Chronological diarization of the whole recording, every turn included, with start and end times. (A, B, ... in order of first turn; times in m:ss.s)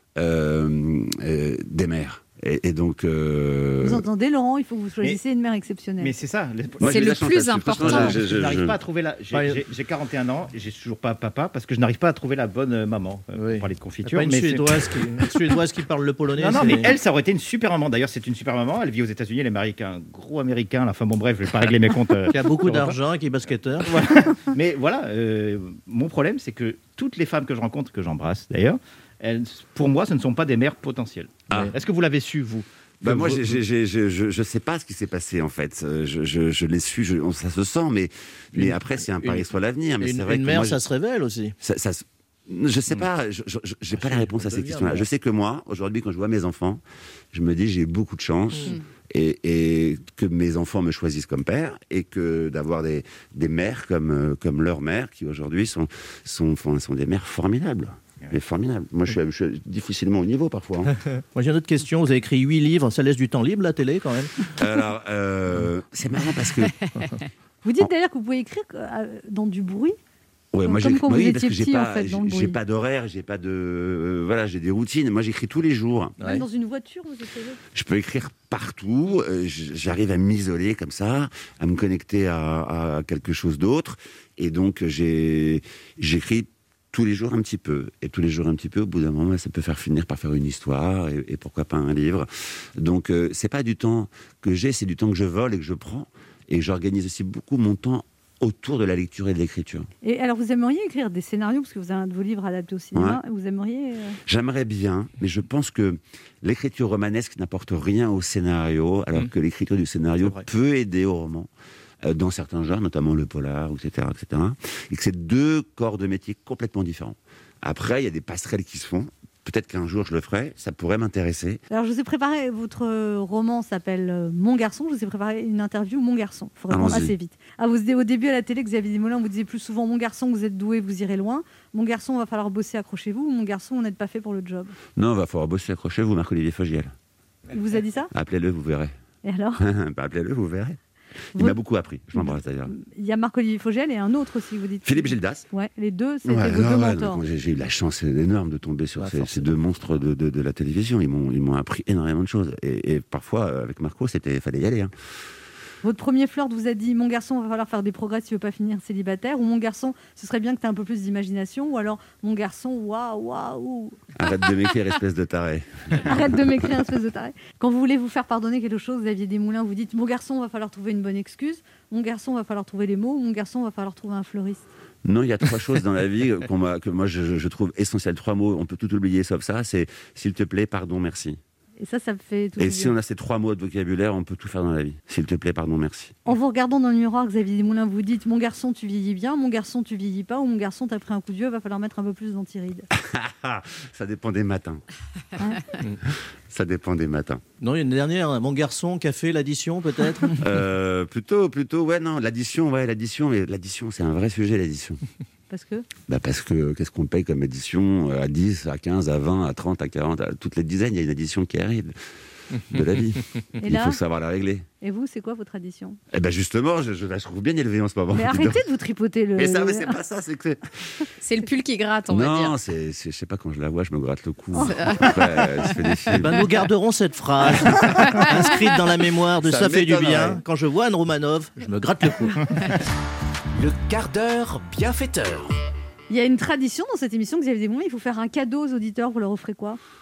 0:00.2-0:04.0 A
0:03.8-0:06.1 B
0:06.0-0:07.0 C
0:06.8-0:08.2 D
0:06.8-0:08.7 A
0:07.8-0:15.6 C
0:09.3-0:09.6 E
0:13.4-0:17.0 E
0:16.3-0:23.0 C
0:22.3-0:24.0 E
0:23.8-0:33.4 C
0:33.0-0:40.8 A
0:38.5-0:39.5 E
0:40.0-0:41.6 E
0:41.6-1:00.9 A
0:43.9-0:45.0 E
1:01.3-1:04.5 E
1:04.6-1:06.7 A
1:07.6-1:10.0 B
1:10.5-1:16.2 A
1:10.6-1:12.6 B
1:16.2-1:16.4 E
1:16.2-1:17.6 B
1:17.7-1:39.9 A
1:40.0-1:44.2 B
1:42.9-1:43.2 A
1:44.2-1:51.5 A
1:52.0-2:01.6 A
2:01.7-2:14.7 B
2:06.7-2:07.1 A
2:15.0-2:16.9 A
2:17.5-2:18.1 B
2:18.1-2:18.9 A
2:19.2-2:19.6 B
2:19.6-2:20.8 A
2:21.3-2:22.7 A
2:22.1-2:27.2 B
2:24.8-2:25.4 A
2:26.2-2:34.9 A
2:29.0-2:29.5 E
2:35.8-2:44.0 B
2:44.2-2:46.5 A
2:46.0-2:54.6 B
2:55.0-3:01.4 A
3:01.8-3:02.9 B
3:02.6-3:06.2 A
3:06.2-3:12.9 B
3:13.0-3:14.8 A
3:15.4-3:15.6 B
3:16.5-3:17.4 A
3:17.6-3:20.4 E
3:20.4-3:25.0 A
3:25.5-3:25.8 B
3:26.1-3:31.9 A
3:32.7-3:34.6 A
3:33.6-3:34.0 B
3:34.8-3:36.0 B
3:36.1-3:38.6 A
3:38.1-3:39.9 B
3:39.4-3:40.7 A
3:41.2-3:42.6 D
3:42.1-3:46.4 A
3:44.6-3:45.1 B
3:44.6-3:45.2 D
3:46.2-3:52.5 E
3:48.0-3:48.5 D
3:49.4-3:50.4 A
3:53.6-3:55.5 F
3:56.1-3:59.8 B